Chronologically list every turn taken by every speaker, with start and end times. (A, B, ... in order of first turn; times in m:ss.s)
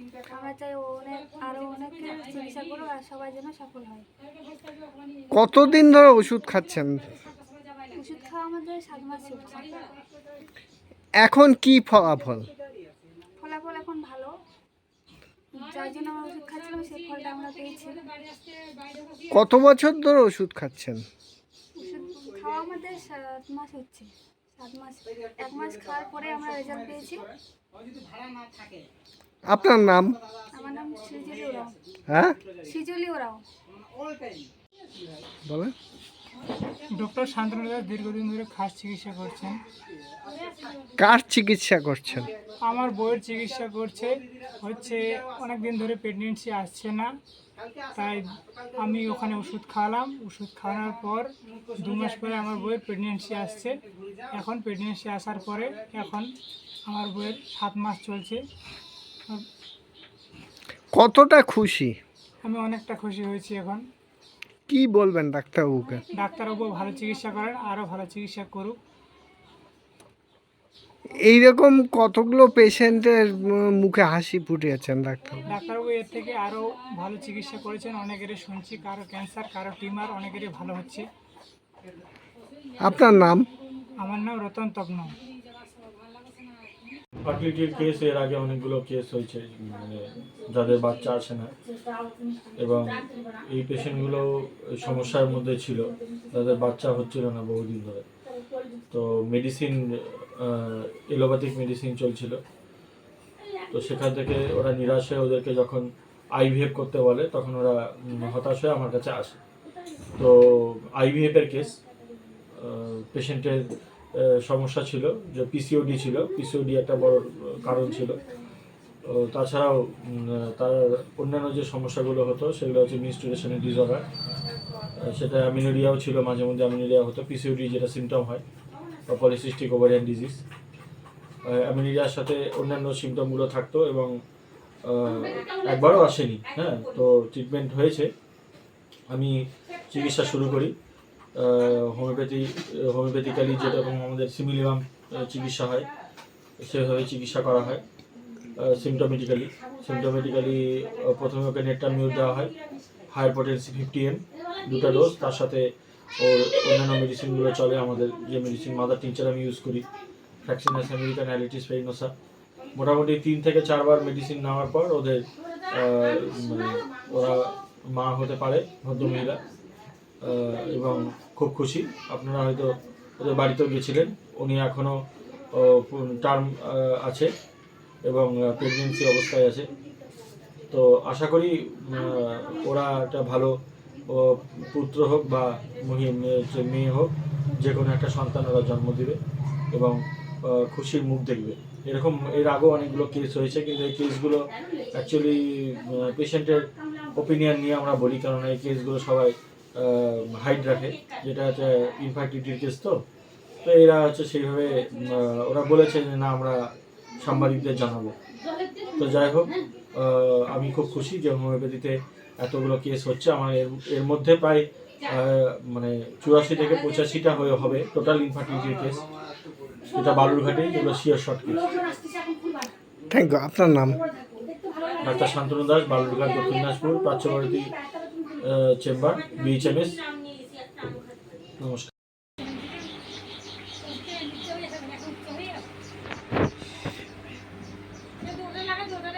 0:00.3-0:04.1 A
0:05.3-0:07.2 B
0:07.9-0:10.0 A
0:11.2-0:12.5 B
0:13.4-0:14.3 A
0:15.5-0:18.1 A
0:19.3-0:21.0 B
0:21.8-0:27.3 A
0:29.4-0:30.2 B
0:30.5-0:31.8 A
0:32.1-0:32.4 B
0:32.6-0:33.4 A
0:35.5-0:35.7 B
0:36.9-0:39.6 C
0:41.0-0:42.3 B
0:42.7-0:47.1 C
0:47.9-0:56.3 C
0:56.9-0:58.4 C
1:00.9-1:02.0 B
1:02.4-1:03.8 C
1:04.7-1:06.0 B
1:06.1-1:08.8 C
1:11.1-1:15.4 B
1:15.5-1:21.1 C
1:22.8-1:23.5 B
1:24.0-1:25.2 C
1:27.2-1:31.5 D
1:32.6-1:38.0 D
1:38.9-1:42.4 D
1:43.7-1:49.4 D
1:50.2-1:51.8 D
1:52.6-1:58.2 D
1:59.0-2:04.1 D
2:05.0-2:08.4 D
2:09.1-2:10.4 D
2:11.4-2:14.1 D
2:14.8-2:18.1 D
2:19.9-2:20.8 D
2:21.4-2:25.9 D
2:26.6-2:27.8 D
2:28.6-2:32.5 D
2:33.1-2:39.9 D
2:40.4-2:42.1 D
2:42.7-2:49.4 D
2:50.2-2:55.0 D
2:55.5-2:57.3 D
2:58.0-2:59.7 D
3:00.7-3:03.5 D
3:04.1-3:09.2 D
3:09.7-3:23.0 D
3:23.6-3:26.6 D
3:27.2-3:28.2 D
3:29.0-3:39.0 D
3:39.9-3:41.8 D
3:43.1-3:44.0 B
3:45.0-3:47.8 D
3:48.4-3:50.0 D
3:51.6-3:51.9 D